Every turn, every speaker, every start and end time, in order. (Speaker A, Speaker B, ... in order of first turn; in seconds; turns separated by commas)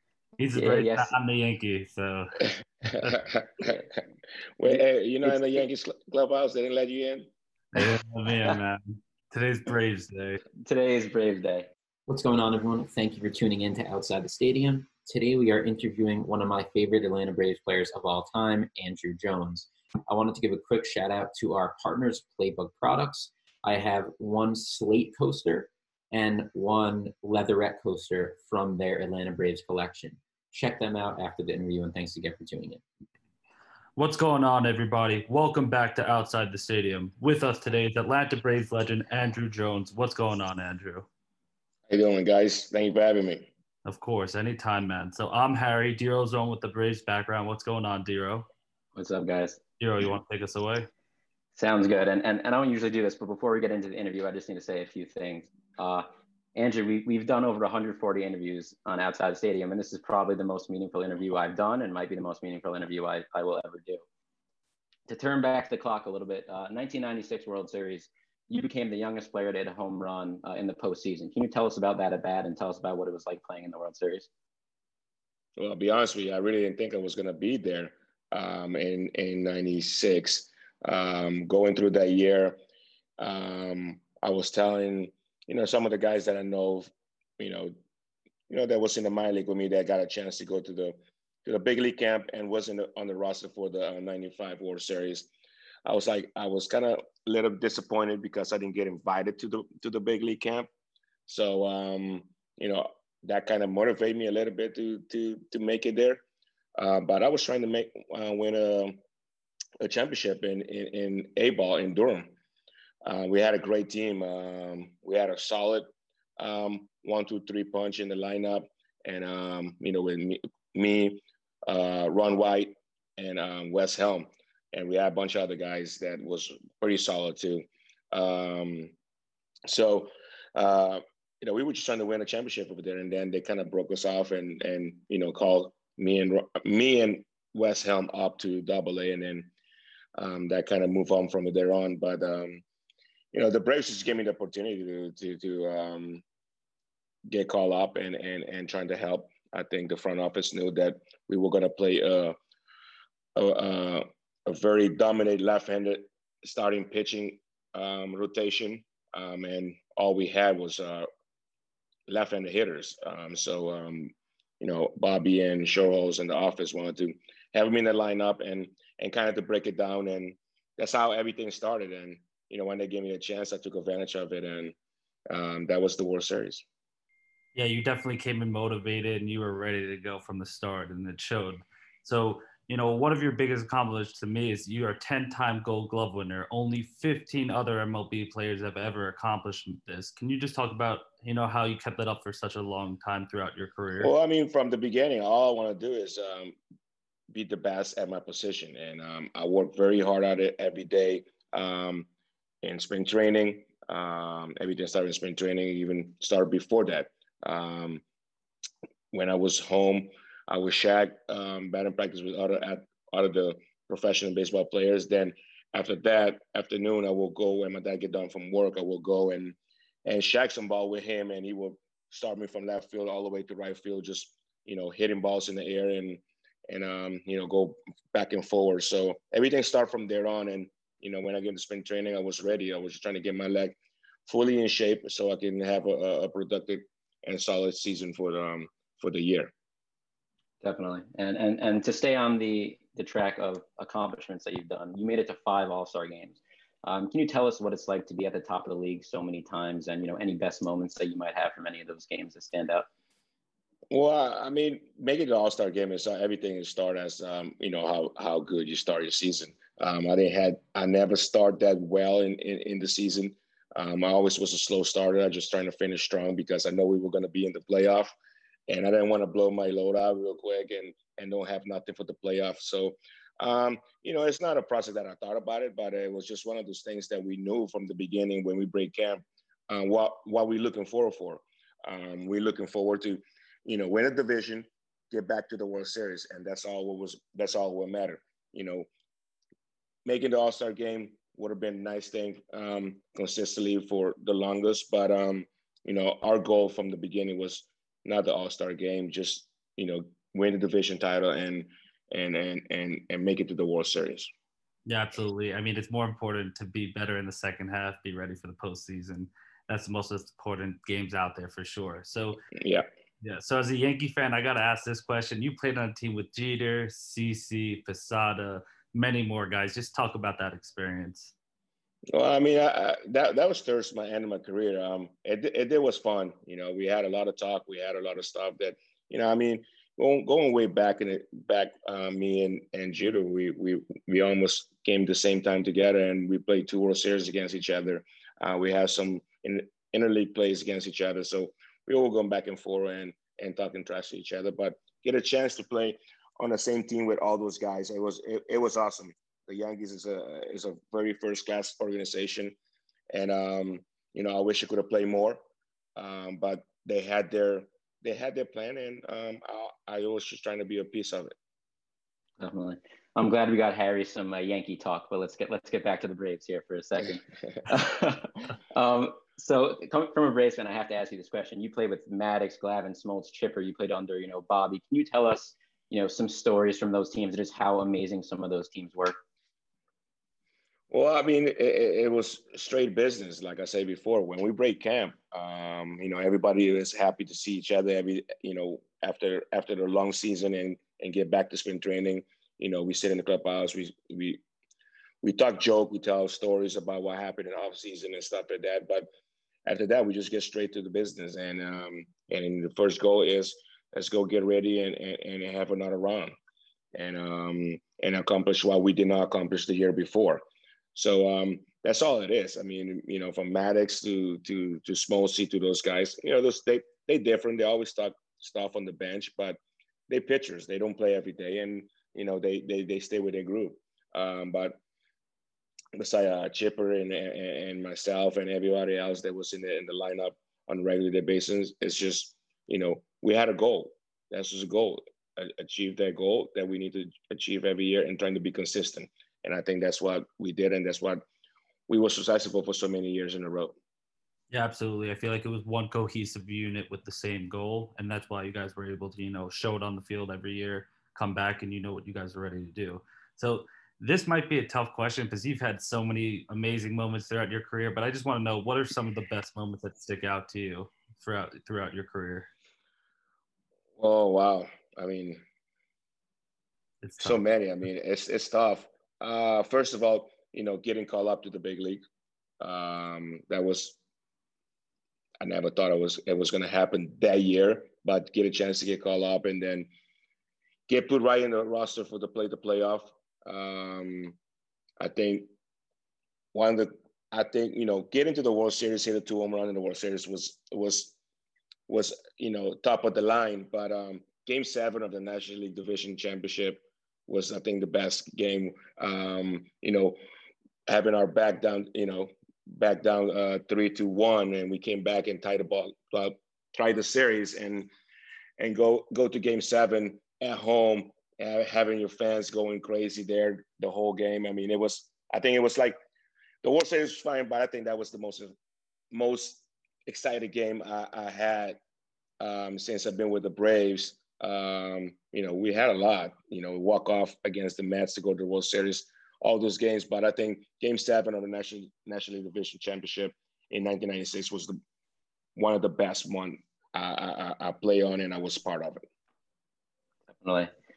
Speaker A: 0.4-3.2, Speaker B: 0.5-1.1, Speaker C: 2.8-3.7, Speaker C: 4.6-7.3, Speaker B: 4.6-5.6, Speaker A: 7.7-10.4, Speaker B: 7.8-8.6, Speaker B: 10.6-11.7, Speaker D: 12.1-32.8, Speaker A: 34.0-41.0, Speaker C: 41.9-43.5, Speaker A: 43.9-48.5, Speaker B: 49.0-49.6, Speaker A: 49.8-50.9, Speaker B: 51.5-64.0, Speaker B: 65.1-74.3, Speaker C: 75.6-82.6, Speaker C: 83.2-87.7, Speaker C: 88.5-95.3, Speaker C: 95.8-100.7, Speaker C: 101.3-106.2, Speaker C: 106.8-109.0, Speaker C: 109.8-112.3, Speaker C: 113.0-115.9, Speaker C: 116.4-128.9, Speaker C: 129.7-139.5, Speaker C: 140.2-142.6, Speaker C: 143.3-146.2, Speaker C: 147.3-152.3, Speaker C: 153.3-161.1, Speaker C: 162.1-174.7, Speaker C: 175.3-176.6, Speaker A: 177.5-194.1, Speaker C: 194.0-196.6, Speaker C: 197.3-202.1, Speaker C: 202.6-208.0, Speaker C: 209.1-239.5, Speaker B: 240.6-252.9, Speaker C: 253.9-268.1, Speaker C: 268.7-288.9, Speaker C: 290.1-304.3, Speaker A: 304.9-312.4, Speaker C: 312.6-312.8, Speaker A: 313.2-321.3, Speaker C: 322.1-352.5, Speaker C: 353.1-355.4, Speaker C: 355.9-361.3, Speaker B: 362.4-379.1, Speaker C: 380.9-394.4, Speaker C: 395.2-399.1, Speaker C: 399.6-406.3, Speaker C: 406.9-410.4, Speaker C: 410.9-424.8, Speaker C: 425.9-441.2, Speaker C: 441.9-443.7, Speaker A: 444.5-462.5, Speaker C: 464.0-465.4, Speaker A: 467.0-467.4, Speaker C: 467.2-472.0, Speaker C: 472.6-474.0, Speaker C: 475.4-479.9, Speaker C: 480.9-484.4, Speaker C: 485.0-485.5, Speaker C: 486.5-491.1, Speaker C: 491.9-500.2, Speaker C: 500.9-507.9, Speaker C: 508.6-516.0, Speaker C: 516.6-518.5, Speaker C: 519.1-521.8, Speaker C: 522.4-534.8, Speaker C: 535.5-539.0, Speaker B: 540.3-540.7